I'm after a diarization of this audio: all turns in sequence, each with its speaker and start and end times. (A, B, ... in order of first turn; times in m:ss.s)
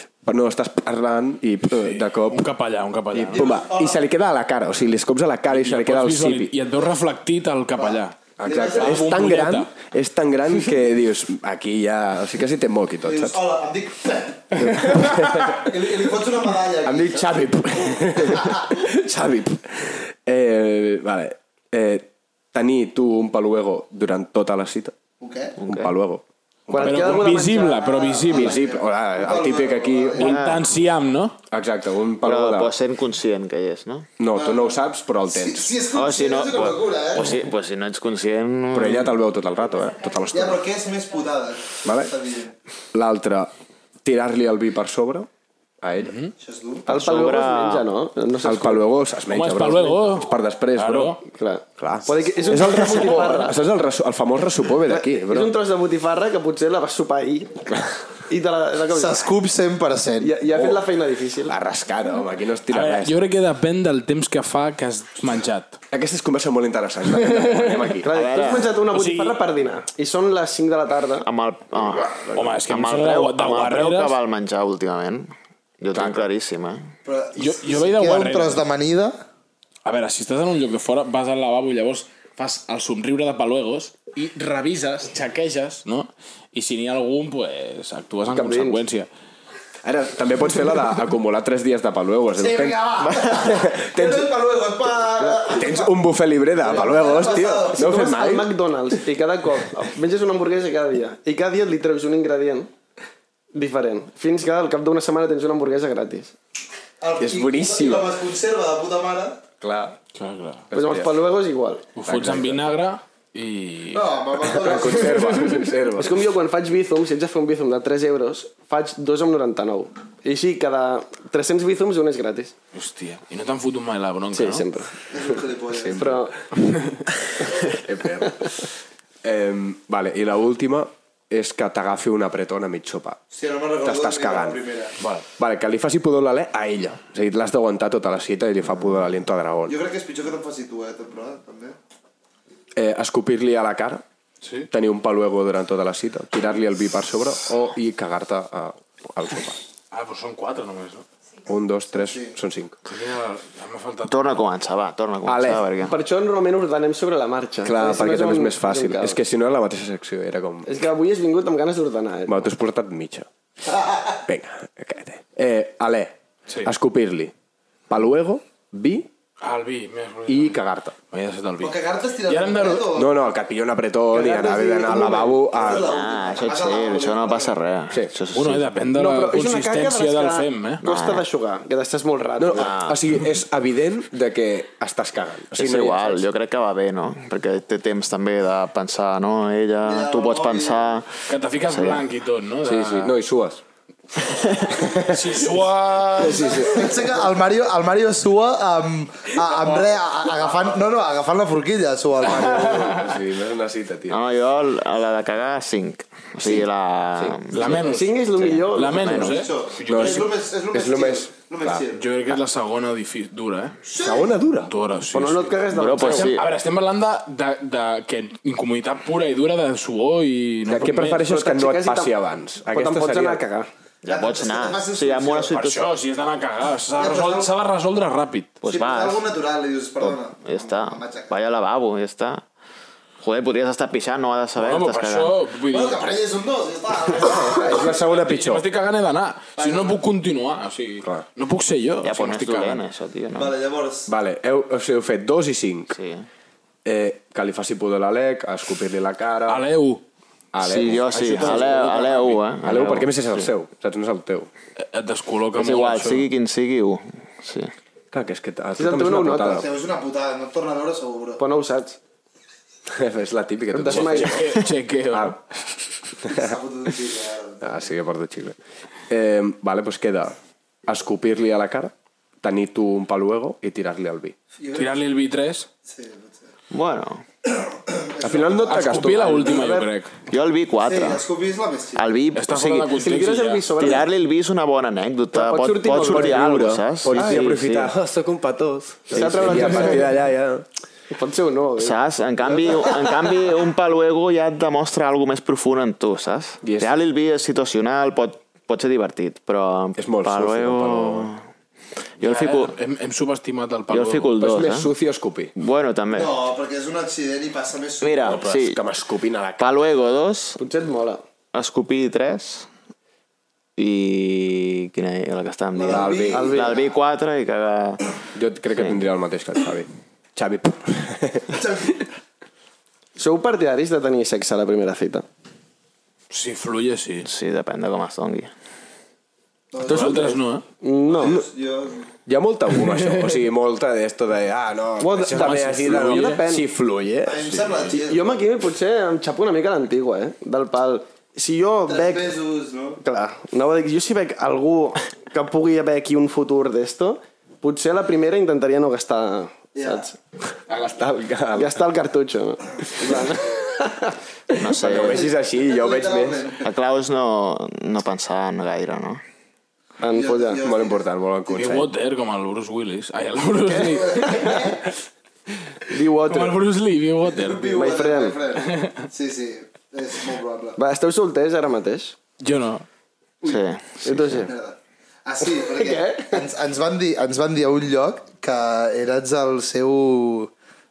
0:00.2-0:02.5 A
0:01.7-0:03.5 B
0:03.1-0:06.5 A
0:03.3-0:04.0 C
0:05.5-0:09.7 B
0:07.8-0:09.1 C
0:08.4-0:13.4 A
0:13.0-0:17.4 C
0:14.5-0:15.7 A
0:16.8-0:24.9 A
0:18.3-0:18.7 C
0:25.2-0:25.6 C
0:25.6-0:25.9 D
0:25.6-0:27.3 A
0:26.7-0:28.1 E
0:26.8-0:28.6 B
0:27.9-0:30.5 C
0:28.3-0:30.3 A
0:30.2-0:31.4 B
0:30.2-0:30.6 D
0:31.5-0:32.8 A
0:32.2-0:34.1 D
0:34.2-0:35.7 A
0:34.3-0:34.8 C
0:35.3-0:37.4 C
0:35.9-0:39.2 D
0:38.7-0:40.6 A
0:40.3-0:42.5 C
0:41.8-0:42.1 A
0:42.9-0:43.5 A
0:44.0-0:45.3 A
0:45.8-0:46.1 A
0:46.0-0:46.3 B
0:46.4-0:46.9 C
0:46.8-0:48.8 E
0:46.9-0:47.9 D
0:48.4-0:51.2 A
0:49.3-0:51.2 B
0:51.3-0:53.6 E
0:51.8-0:55.5 A
0:52.5-0:53.4 C
0:54.8-0:59.3 E
0:58.9-1:00.3 C
1:00.2-1:01.6 E
1:00.5-1:00.8 A
1:01.4-1:03.1 A
1:02.7-1:05.8 B
1:05.9-1:08.1 A
1:07.2-1:08.0 B
1:08.0-1:11.3 E
1:08.1-1:08.7 D
1:08.9-1:09.4 B
1:11.2-1:16.9 D
1:12.3-1:14.2 B
1:15.9-1:16.2 A
1:17.0-1:19.2 C
1:17.4-1:18.6 B
1:19.8-1:29.1 B
1:28.3-1:28.8 E
1:29.8-1:34.3 A
1:32.4-1:36.0 C
1:35.5-1:38.5 A
1:36.6-1:38.0 C
1:37.3-1:42.7 E
1:43.5-1:46.4 E
1:47.0-1:49.4 C
1:47.2-1:48.2 A
1:49.6-1:50.0 A
1:50.1-1:50.7 B
1:50.7-1:51.2 A
1:50.7-1:51.9 E
1:52.0-1:54.0 B
1:52.0-1:52.6 A
1:53.9-1:55.5 C
1:54.4-1:56.2 A
1:55.1-1:55.5 B
1:56.0-2:02.5 E
2:02.7-2:04.7 B
2:04.3-2:05.4 E
2:05.1-2:06.2 C
2:05.7-2:06.2 A
2:06.0-2:06.3 E
2:06.6-2:07.0 B
2:07.6-2:08.7 A
2:09.2-2:13.2 A
2:13.3-2:14.9 C
2:13.8-2:14.6 A
2:15.0-2:15.2 B
2:15.4-2:19.8 A
2:19.7-2:21.8 C
2:22.7-2:24.0 A
2:24.4-2:24.7 B
2:24.7-2:29.6 A
2:29.9-2:31.0 B
2:31.4-2:32.8 A
2:32.0-2:32.3 C
2:32.8-2:34.4 B
2:34.0-2:36.0 D
2:35.2-2:35.7 A
2:35.8-2:39.2 E
2:37.6-2:40.7 A
2:40.6-2:42.4 E
2:42.3-2:43.3 A
2:43.7-2:44.1 C
2:44.3-2:47.3 A
2:47.9-2:49.1 A
2:49.4-2:50.6 B
2:50.3-2:50.9 A
2:51.1-2:52.9 B
2:51.6-2:53.2 C
2:52.9-2:56.0 A
2:54.1-2:55.5 E
2:55.5-2:57.5 C
2:55.8-2:58.7 D
2:58.3-3:00.8 B
2:58.9-3:02.7 E
3:00.8-3:01.2 D
3:02.4-3:06.3 A
3:02.6-3:03.0 D
3:05.5-3:12.0 D
3:09.8-3:11.0 C
3:11.3-3:13.1 B
3:12.6-3:13.6 A
3:14.3-3:14.9 D
3:14.7-3:16.7 B
3:16.2-3:17.2 A
3:16.2-3:23.1 C
3:20.4-3:20.7 A
3:22.2-3:24.2 A
3:22.3-3:23.0 B
3:24.1-3:27.8 D
3:27.2-3:27.6 A
3:27.5-3:28.2 B
3:27.6-3:29.4 E
3:28.4-3:29.5 D
3:28.7-3:30.3 B
3:29.2-3:32.0 C
3:29.9-3:31.8 A
3:31.9-3:33.8 B
3:33.8-3:34.3 C
3:34.0-3:34.7 A
3:34.7-3:41.2 B
3:35.1-3:36.4 E
3:35.7-3:36.5 D
3:40.7-3:43.4 A
3:41.2-3:42.1 E
3:42.7-3:43.7 E
3:44.0-3:45.9 D
3:44.1-3:45.6 C
3:45.5-3:48.6 B
3:47.0-3:47.5 C
3:48.6-3:49.2 D
3:48.7-3:51.3 C
3:50.0-3:52.4 D
3:53.2-3:55.4 D
3:54.6-3:56.0 B
3:55.7-3:58.0 C
3:57.5-3:58.6 A
3:57.9-4:02.8 B
3:59.6-4:00.0 C
4:02.0-4:03.6 D
4:03.4-4:04.1 C
4:04.1-4:06.0 A
4:05.9-4:06.3 D
4:06.8-4:09.6 A
4:09.5-4:10.0 B
4:10.5-4:11.6 A
4:10.6-4:13.5 D
4:11.1-4:12.4 B
4:11.4-4:11.8 E
4:12.6-4:14.5 A
4:14.8-4:16.3 B
4:15.6-4:17.7 D
4:18.1-4:19.7 A
4:18.8-4:19.7 E
4:19.6-4:21.4 C
4:21.4-4:22.0 E
4:22.9-4:24.6 A
4:23.7-4:24.5 E
4:23.9-4:25.6 B
4:25.1-4:25.4 A
4:26.3-4:27.8 C
4:27.6-4:28.6 A
4:29.1-4:30.4 A
4:30.9-4:34.3 A
4:34.6-4:34.9 C
4:34.7-4:35.7 B
4:35.8-4:36.4 C
4:36.7-4:37.2 D
4:37.6-4:38.8 C
4:38.2-4:39.7 A
4:38.7-4:40.2 B
4:39.4-4:39.9 E
4:40.3-4:41.2 D
4:40.8-4:42.0 C
4:41.9-4:43.1 D
4:42.3-4:43.7 B
4:42.9-4:44.1 E
4:43.8-4:47.9 D
4:45.3-4:46.6 E
4:45.9-4:50.6 A
4:47.2-4:47.4 E
4:49.1-4:50.1 E
4:49.1-4:50.0 D
4:51.1-4:52.0 E
4:51.8-5:01.4 D
4:52.5-4:53.3 E
4:56.6-4:56.9 A
5:00.0-5:01.3 A
5:02.2-5:02.7 D
5:02.2-5:04.3 B
5:03.9-5:04.9 D
5:04.4-5:05.5 A
5:05.6-5:06.3 D
5:06.1-5:08.4 C
5:08.0-5:08.8 D
5:08.2-5:09.8 A
5:09.6-5:10.6 D
5:10.6-5:11.2 E
5:11.5-5:12.7 D
5:13.8-5:18.0 D
5:15.7-5:16.9 C
5:15.9-5:16.7 A
5:16.3-5:16.8 E
5:18.3-5:21.6 A
5:21.5-5:22.0 C
5:23.2-5:25.2 E
5:26.3-5:27.3 B
5:27.2-5:28.5 D
5:29.7-5:30.4 C
5:29.8-5:30.6 B
5:29.9-5:31.3 E
5:31.1-5:32.1 C
5:32.2-5:37.9 A
5:35.0-5:36.6 E
5:35.3-5:36.4 B
5:37.2-5:38.4 C
5:37.6-5:37.9 B
5:37.9-5:42.4 E
5:41.9-5:43.0 C
5:43.0-5:50.2 E
5:49.8-5:50.1 C
5:50.7-5:51.8 A
5:51.6-5:54.7 E
5:54.5-5:55.3 D
5:54.7-5:56.5 A
5:54.9-5:56.7 C
5:56.6-5:59.2 D
6:00.0-6:00.6 E
6:00.1-6:01.0 C
6:00.6-6:01.9 A
6:01.5-6:04.7 B
6:03.6-6:04.8 E
6:04.3-6:04.7 C
6:05.8-6:06.6 E
6:06.2-6:07.7 B
6:07.3-6:10.8 C
6:07.6-6:08.4 E
6:08.6-6:09.0 B
6:10.8-6:12.2 E
6:12.4-6:12.8 B
6:13.4-6:14.5 D
6:14.0-6:14.5 E
6:14.3-6:20.5 C
6:15.4-6:16.4 E